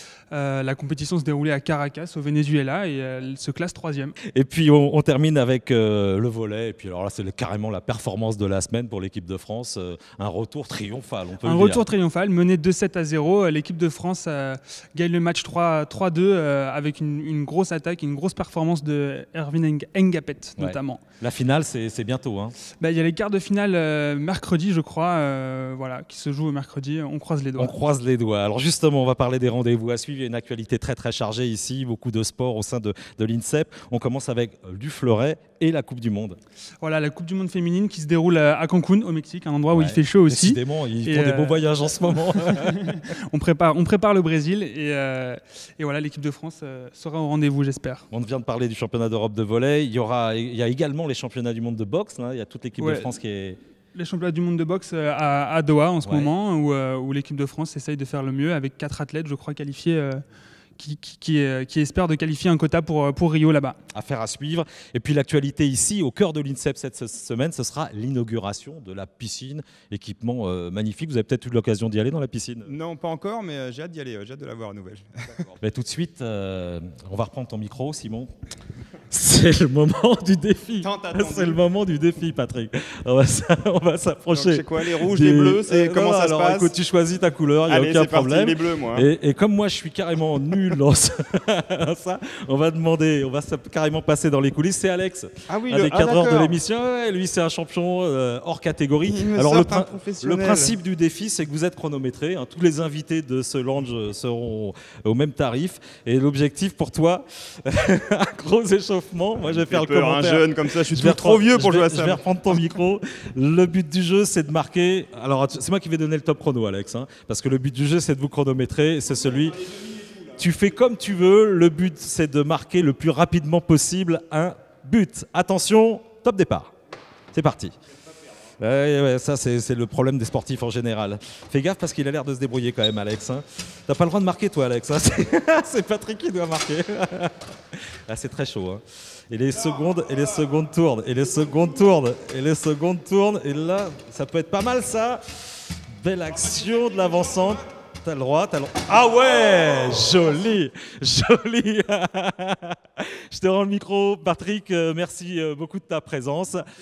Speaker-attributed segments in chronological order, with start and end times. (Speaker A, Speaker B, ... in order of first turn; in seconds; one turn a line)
Speaker A: 0.3-4.2
Speaker B: 4.3-11.8
Speaker A: 11.4-21.0
Speaker B: 20.6-22.6
Speaker A: 22.8-27.7
Speaker B: 27.6-36.4
Speaker A: 36.8-41.6
Speaker B: 39.7-43.0
Speaker A: 42.3-48.0
Speaker B: 48.1-53.6
Speaker A: 52.8-53.1
Speaker A: 54.0-60.2
Speaker B: 56.0-56.3
Speaker A: 60.8-63.8
Speaker B: 63.9-72.7
Speaker C: 72.6-75.6
Speaker B: 75.6-78.3
Speaker B: 79.1-126.7
Speaker C: 80.8-81.6
Speaker C: 84.3-86.7
Speaker C: 87.7-89.1
Speaker C: 95.5-96.6
Speaker C: 99.0-100.8
Speaker C: 109.4-112.2
Speaker B: 127.3-127.7
Speaker B: 128.6-156.7